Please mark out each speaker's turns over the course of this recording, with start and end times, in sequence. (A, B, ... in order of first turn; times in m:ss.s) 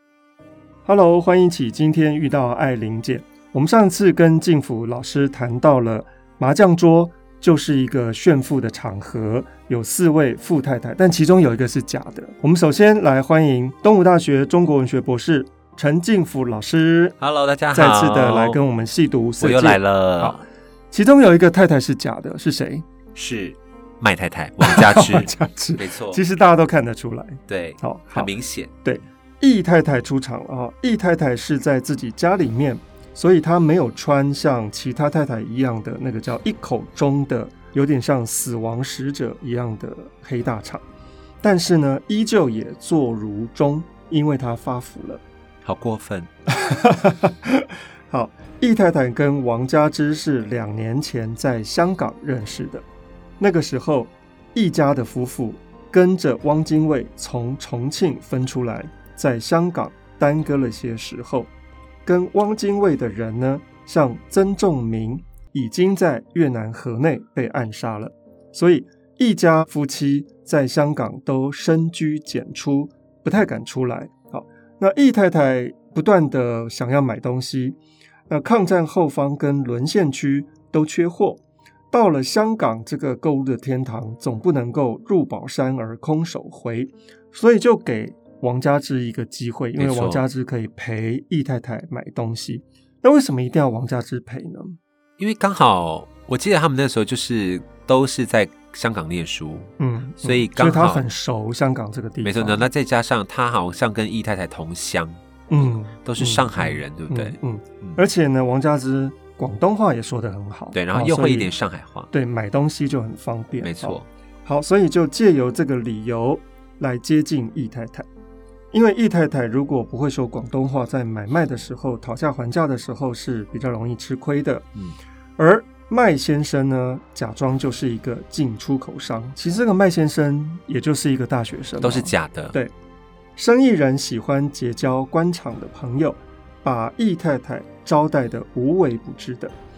0:00.8-0:17.2 A
0:17.2-0:18.6 B
0:17.7-0:22.8 A
0:19.4-0:20.4 B
0:23.2-0:26.2 B
0:24.6-0:28.3 A
0:27.5-0:28.7 B
0:28.8-0:40.8 A
0:41.4-0:45.2 A
0:45.6-0:46.3 B
0:46.5-0:52.8 A
0:53.4-1:01.5 A
1:02.0-1:17.8 A
1:18.3-1:34.8 A
1:29.8-1:30.2 B
1:35.2-1:41.0 B
1:39.8-1:42.7 A
1:42.2-1:48.0 B
1:45.5-1:51.5 A
1:50.7-1:52.1 B
1:52.1-1:58.1 A
1:53.6-1:54.1 B
1:58.7-2:04.7 A
2:05.4-2:12.7 A
2:11.8-2:12.6 B
2:13.4-2:19.6 A